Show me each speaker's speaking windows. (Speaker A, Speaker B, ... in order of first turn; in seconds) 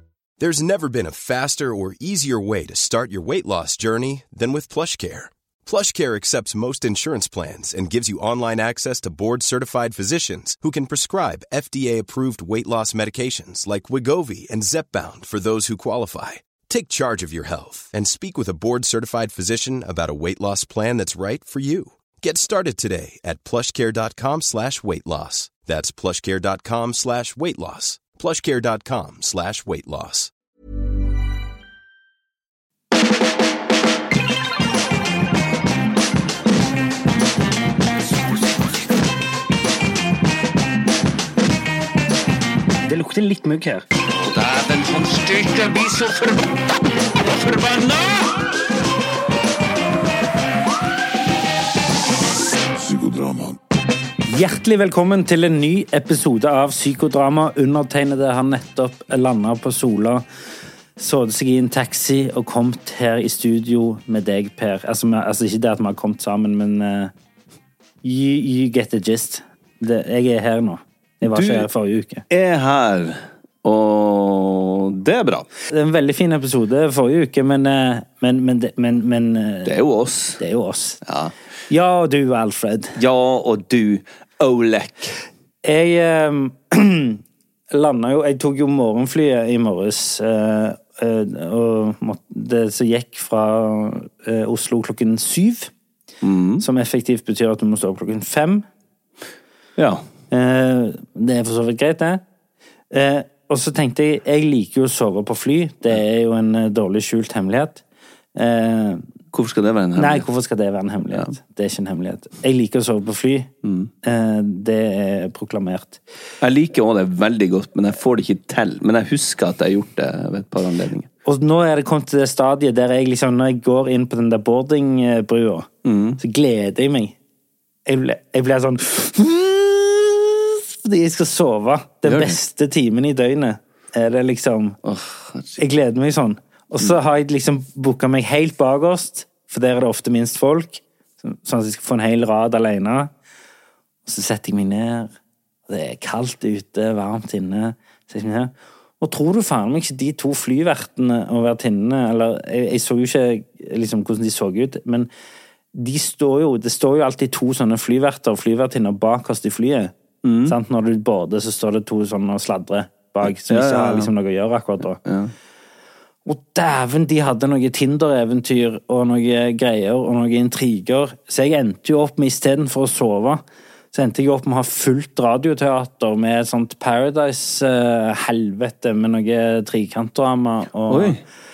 Speaker A: 0.4-30.3
Speaker B: 42.8-43.9, 54.3-60.2, 61.0-67.1, 68.0-72.2, 75.7-79.7, 80.4-81.0, 81.7-83.0, 85.6-95.7, 96.6-98.6, 100.3-102.2, 102.9-107.8, 108.3-109.0, 110.0-113.5, 114.0-116.0, 121.2-127.2, 127.8-134.8, 135.6-143.1, 144.1-145.1, 145.7-155.1, 155.7-159.9, 160.4-165.0, 166.2-173.4, 173.9-181.2
Speaker C: 44.4-46.3, 47.6-48.0, 52.7-53.6
Speaker D: 45.1-45.5, 71.2-71.7, 72.3-75.5, 79.6-80.4, 81.0-81.3, 83.0-85.1, 96.2-96.6, 99.8-100.0, 109.3-110.3, 113.6-113.9, 116.4-121.1, 125.8-126.2, 132.0-132.4, 134.8-135.6, 160.2-160.6, 163.2-164.1, 165.0-165.3, 180.9-181.2